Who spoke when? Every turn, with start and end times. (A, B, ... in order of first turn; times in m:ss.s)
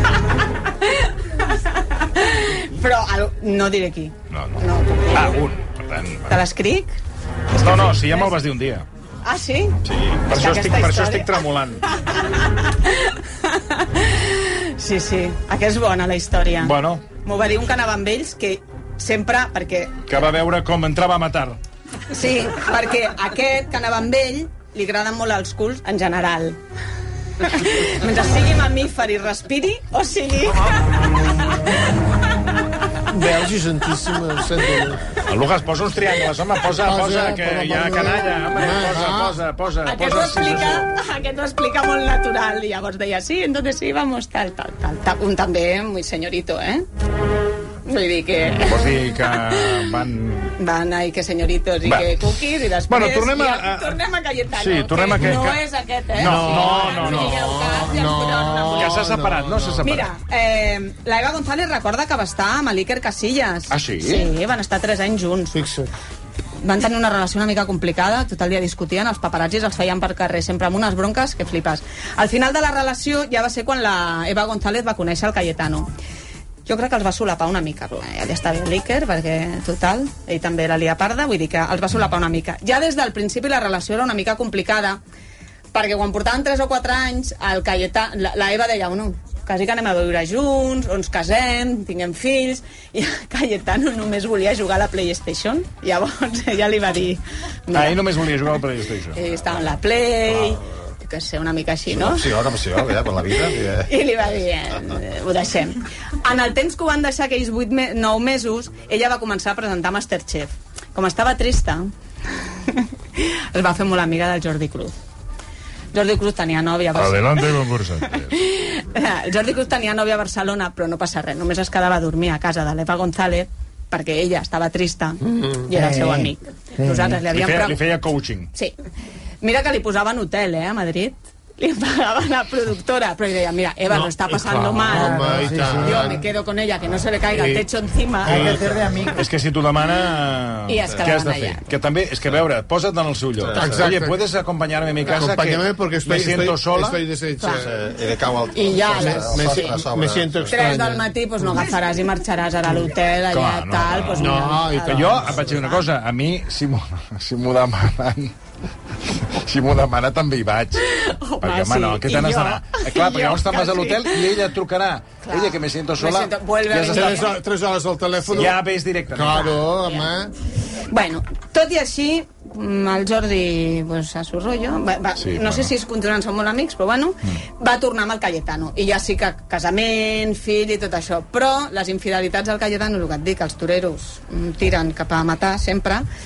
0:00.8-0:05.4 A
0:04.3-0:06.4 B
0:06.3-0:07.0 A
0:07.5-0:08.4 A
0:07.6-0:08.8 B
0:09.2-0:11.3 A
0:09.8-0:11.8 B
0:11.9-0:20.1 A
0:16.6-0:17.0 B
0:20.1-0:21.6 B
0:22.1-0:26.6 A
0:27.4-0:30.7 A
0:33.1-0:35.1 C
0:35.2-0:40.9 B
0:36.7-0:39.3 C
0:39.8-0:46.8 A
0:47.8-0:49.9 A
0:48.6-0:50.6 B
0:50.6-0:59.0 A
0:51.8-0:55.6 B
0:56.1-0:57.6 B
0:56.2-1:00.0 C
0:58.7-1:00.1 B
0:59.8-1:05.6 A
1:03.7-1:04.3 B
1:05.5-1:05.9 C
1:06.6-1:15.9 A
1:16.6-1:25.0 A
1:25.7-1:38.0 A
1:37.7-1:39.2 B
1:39.1-1:42.3 A
1:41.9-1:43.9 D
1:43.8-1:51.9 A
1:52.5-1:54.9 A
1:55.9-2:07.8 A
1:57.0-1:58.4 B
2:05.2-2:06.2 C
2:05.7-2:07.2 E
2:07.3-2:08.5 B
2:09.4-2:18.6 A
2:13.9-2:16.2 C
2:14.9-2:16.2 E
2:17.3-2:17.6 C
2:18.2-2:18.8 C
2:18.2-2:19.3 E
2:19.1-2:27.0 B
2:20.7-2:21.7 A
2:23.4-2:23.9 D
2:23.5-2:24.2 C
2:25.0-2:27.7 C
2:27.4-2:27.7 A
2:27.6-2:30.6 D
2:28.5-2:29.8 A
2:28.9-2:31.7 C
2:30.5-2:35.8 A
2:33.3-2:38.3 B
2:34.2-2:35.5 C
2:39.0-2:40.8 B
2:40.8-2:44.2 A
2:41.4-2:47.3 B
2:45.2-2:47.4 A
2:46.9-2:48.5 C
2:48.2-2:48.5 A
2:48.3-2:49.6 B
2:49.1-2:50.3 C
2:49.3-2:50.1 A
2:50.9-3:06.1 A
2:55.2-2:55.7 B